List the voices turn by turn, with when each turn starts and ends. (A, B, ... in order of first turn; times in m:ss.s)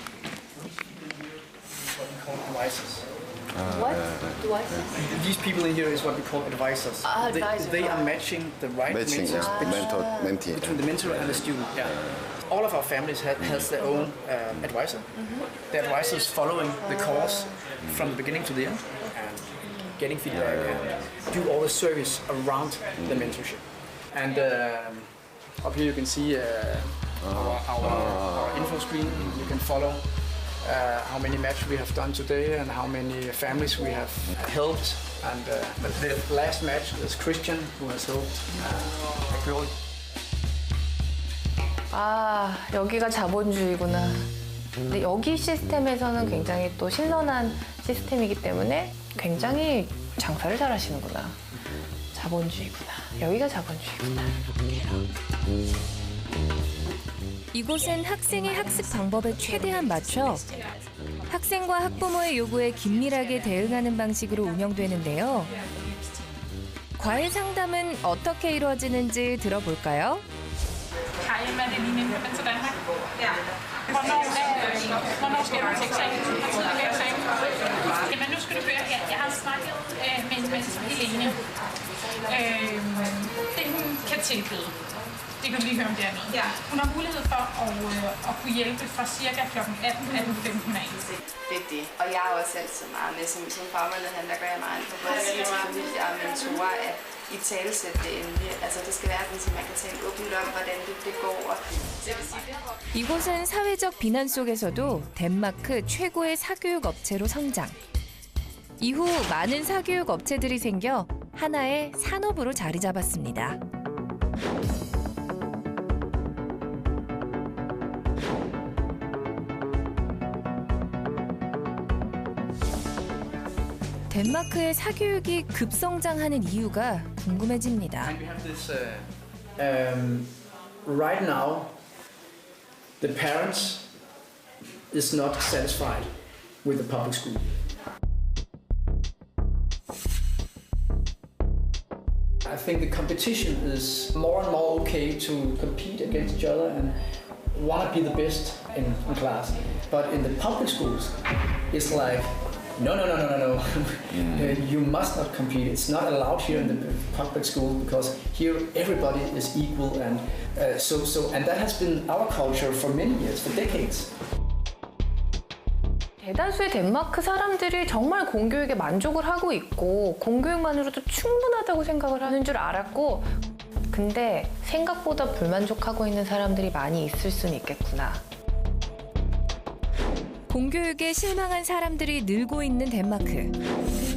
0:00.6-0:03.1 A
0:03.6-0:05.0 B
0:03.7-0:04.8 C
0:05.0-0:39.7 A
0:07.0-0:08.1 C
0:08.9-0:11.4 B
0:09.3-0:10.4 C
0:16.9-0:17.2 C
0:20.3-0:20.6 B
0:41.9-0:44.3 C
0:44.9-0:51.4 C
0:52.1-0:54.9 C
0:57.5-1:00.5 D
1:01.3-1:05.5 D
1:07.0-1:10.2 D
1:11.2-1:12.8 E
1:13.8-1:24.8 E
1:25.4-1:31.1 E
1:31.5-1:32.5 F
1:33.5-1:38.5 F
1:39.9-1:40.7 F
1:41.3-1:41.6 F
1:42.9-1:47.8 D
1:48.8-1:53.6 D
2:04.1-2:08.1 D
2:08.0-2:10.3 A
2:10.8-2:11.8 A
2:13.0-2:13.9 A
2:14.9-2:16.1 A
2:16.6-2:17.6 A
2:22.4-2:44.1 A
2:46.2-2:53.3 C
2:53.9-2:58.2 C
3:00.5-3:03.6 D